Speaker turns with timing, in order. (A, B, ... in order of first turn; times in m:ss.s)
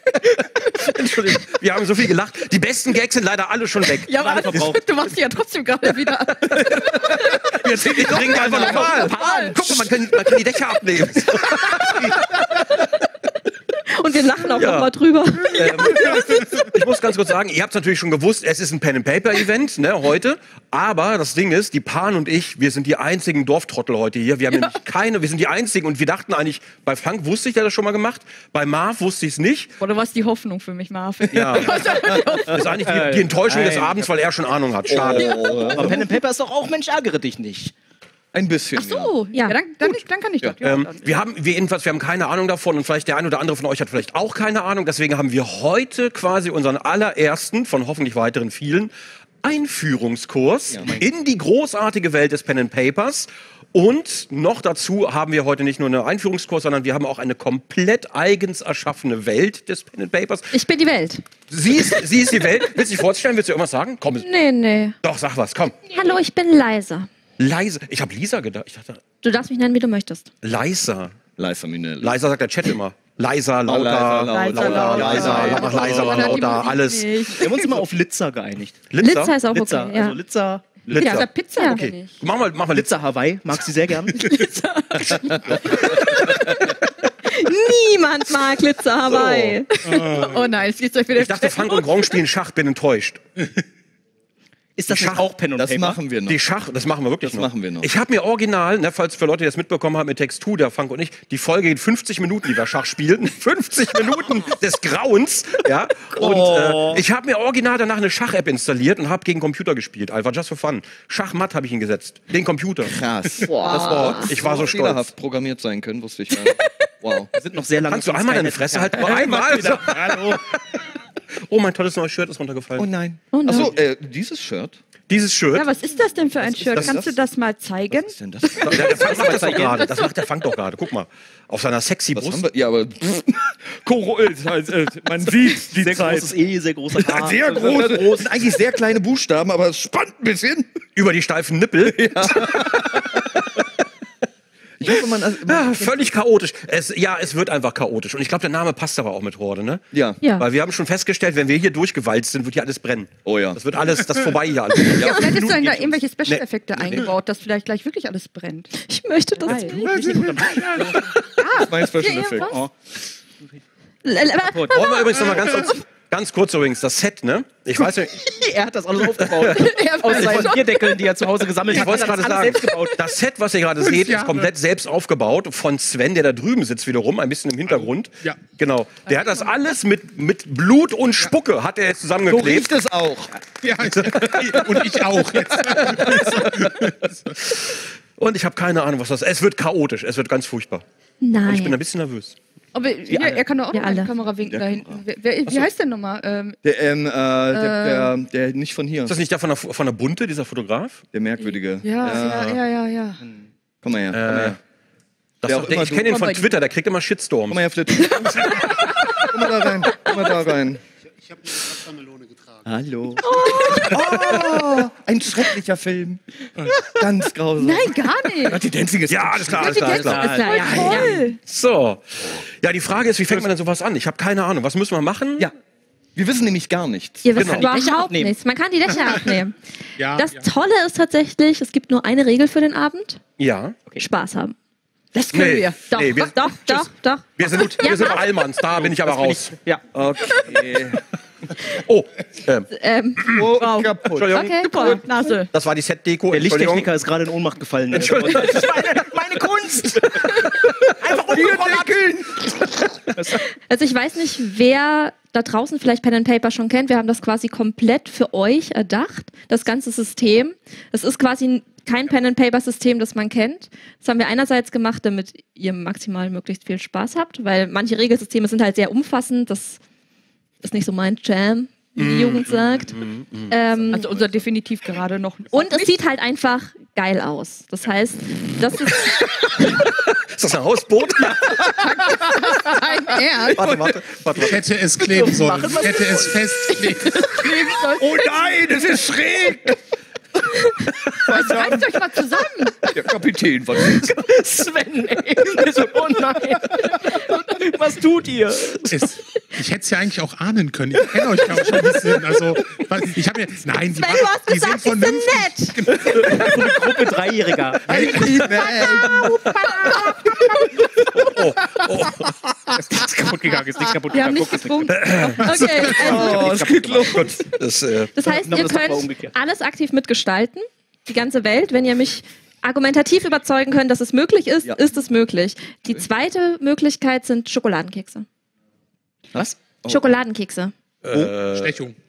0:00.4-0:04.7 A
0:04.0-0:09.6 B
0:04.1-0:04.8 C
0:07.6-0:12.4 A
0:07.7-0:09.0 D
0:07.8-0:09.9 C
0:13.9-0:16.4 E
0:14.4-0:14.9 A
0:15.5-0:29.8 A
0:29.8-0:32.8 B
0:31.3-0:35.7 A
0:32.5-0:34.1 C
0:34.9-0:37.7 C
0:34.9-0:36.1 D
0:38.3-0:39.2 D
0:38.8-0:41.2 B
0:38.8-0:39.6 E
0:39.9-0:40.6 D
0:40.6-1:00.5 A
0:50.8-0:51.1 C
1:00.5-1:01.2 E
1:01.5-1:04.4 A
1:04.2-1:05.0 E
1:05.0-1:05.8 A
1:05.9-1:07.1 E
1:07.4-1:09.0 A
1:09.2-1:10.3 E
1:10.4-1:11.2 A
1:11.4-1:12.2 D
1:12.0-1:17.3 A
1:13.6-1:16.2 D
1:14.3-1:17.8 B
1:17.3-1:18.9 C
1:18.9-1:19.4 A
1:19.0-1:20.2 E
1:19.5-1:20.7 C
1:20.9-1:22.9 A
1:20.9-1:22.2 B
1:20.9-1:21.8 E
1:22.7-1:24.4 C
1:24.2-1:26.6 B
1:25.9-1:26.7 E
1:27.2-1:30.2 E
1:29.1-1:29.6 A
1:29.9-1:30.5 F
1:29.9-1:32.2 B
1:31.1-1:33.2 A
1:34.8-1:36.0 C
1:34.9-1:35.3 A
1:35.6-1:36.4 D
1:36.3-1:53.0 A
1:37.2-1:37.9 D
1:46.1-1:47.0 D
1:52.8-1:57.3 D
1:53.4-1:54.3 E
1:53.6-1:55.0 A
1:53.7-1:54.1 B
1:57.3-2:00.0 C
1:57.9-2:00.9 A
1:59.8-2:00.3 F
2:01.4-2:02.9 A
2:02.8-2:04.8 D
2:03.3-2:03.8 E
2:05.1-2:05.7 A
2:05.5-2:10.1 B
2:06.2-2:07.2 D
2:06.7-2:07.0 A
2:07.9-2:09.6 D
2:08.6-2:12.4 A
2:08.8-2:10.0 C
2:12.1-2:16.3 D
2:15.3-2:18.4 C
2:17.0-2:20.7 D
2:21.0-2:23.2 A
2:21.8-2:23.4 D
2:24.8-2:25.9 D
2:24.9-2:37.1 A
2:29.9-2:30.2 D
2:33.2-2:33.6 D
2:34.9-2:38.7 B
2:38.8-2:39.9 E
2:39.4-2:42.7 B
2:39.8-2:42.6 D
2:40.1-2:40.6 F
2:42.4-2:42.7 C
2:44.0-2:45.3 E
2:44.4-2:44.8 C
2:44.7-2:48.2 A
2:47.8-2:53.1 C
2:49.2-2:50.6 A
2:49.5-2:51.2 B
2:51.7-3:02.7 A
2:51.7-2:52.2 B
2:53.8-2:54.5 F
2:57.7-2:58.4 F
3:02.2-3:03.4 D
3:03.6-3:07.3 F
3:03.9-3:05.0 A
3:05.7-3:10.8 A
3:05.9-3:06.7 D
3:11.2-3:11.8 E
3:11.4-3:12.4 A
3:12.7-3:16.6 B
3:13.7-3:14.1 E
3:14.4-3:15.0 D
3:16.6-3:19.2 D
3:17.5-3:18.1 B
3:19.1-3:21.0 A
3:21.1-3:22.6 D
3:21.8-3:23.2 B
3:22.2-3:22.6 A
3:23.8-3:24.6 D
3:24.1-3:24.6 A
3:25.4-3:27.6 A
3:25.4-3:26.3 D
3:26.1-3:26.5 B
3:27.5-3:30.8 D
3:32.6-3:40.0 D
3:33.2-3:34.4 B
3:36.6-3:36.9 F
3:37.6-3:38.6 B
3:39.1-3:45.5 A
3:39.6-3:41.4 B
3:39.7-3:41.0 C
3:40.0-3:41.1 E
3:46.2-3:47.3 D
3:47.2-3:49.6 E
3:47.4-3:47.7 A
3:47.5-3:48.4 C
3:50.0-3:50.4 F
3:50.2-3:53.2 E
3:53.4-3:53.8 A
3:54.0-3:54.6 E
3:55.1-3:55.9 B
3:55.3-3:59.6 A
3:55.9-3:58.3 E
3:58.7-3:59.8 C
3:59.9-4:01.0 D
4:01.7-4:03.5 A
4:02.7-4:03.5 E
4:03.3-4:04.4 D
4:03.5-4:05.5 B
4:04.0-4:06.9 A
4:04.3-4:05.2 E
4:06.3-4:12.1 C
4:07.9-4:08.9 A
4:11.2-4:12.6 D
4:13.1-4:13.4 C
4:13.6-4:29.8 E
4:30.6-4:33.0 E
4:32.0-4:34.2 A
4:33.5-4:34.1 E
4:33.9-4:35.9 B
4:35.5-4:39.2 E
4:39.1-4:41.7 A
4:41.4-4:41.8 D
4:41.5-4:43.6 B
4:43.5-4:44.7 A
4:43.6-4:44.2 D
4:44.3-4:47.3 F
4:45.3-4:46.4 C
4:46.7-4:48.2 B
4:48.0-4:49.8 D
4:51.2-4:51.9 D
4:51.2-4:52.9 B
4:52.9-4:54.2 D
4:53.8-4:59.0 C
4:58.8-5:06.7 F
5:03.9-5:05.8 E
5:05.9-5:08.1 C
5:07.9-5:08.6 F
5:07.9-5:09.4 D
5:08.7-5:10.8 B
5:09.4-5:10.1 E
5:09.6-5:09.9 A
5:11.1-5:12.4 A
5:12.7-5:17.3 C
5:14.1-5:15.6 B
5:14.9-5:16.4 A
5:15.4-5:16.4 E
5:15.9-5:17.4 D
5:17.1-5:18.1 A
5:18.1-5:28.3 E
5:18.2-5:19.3 C
5:29.3-5:30.2 D
5:29.9-5:30.7 E
5:31.0-5:31.8 A
5:31.3-5:32.0 F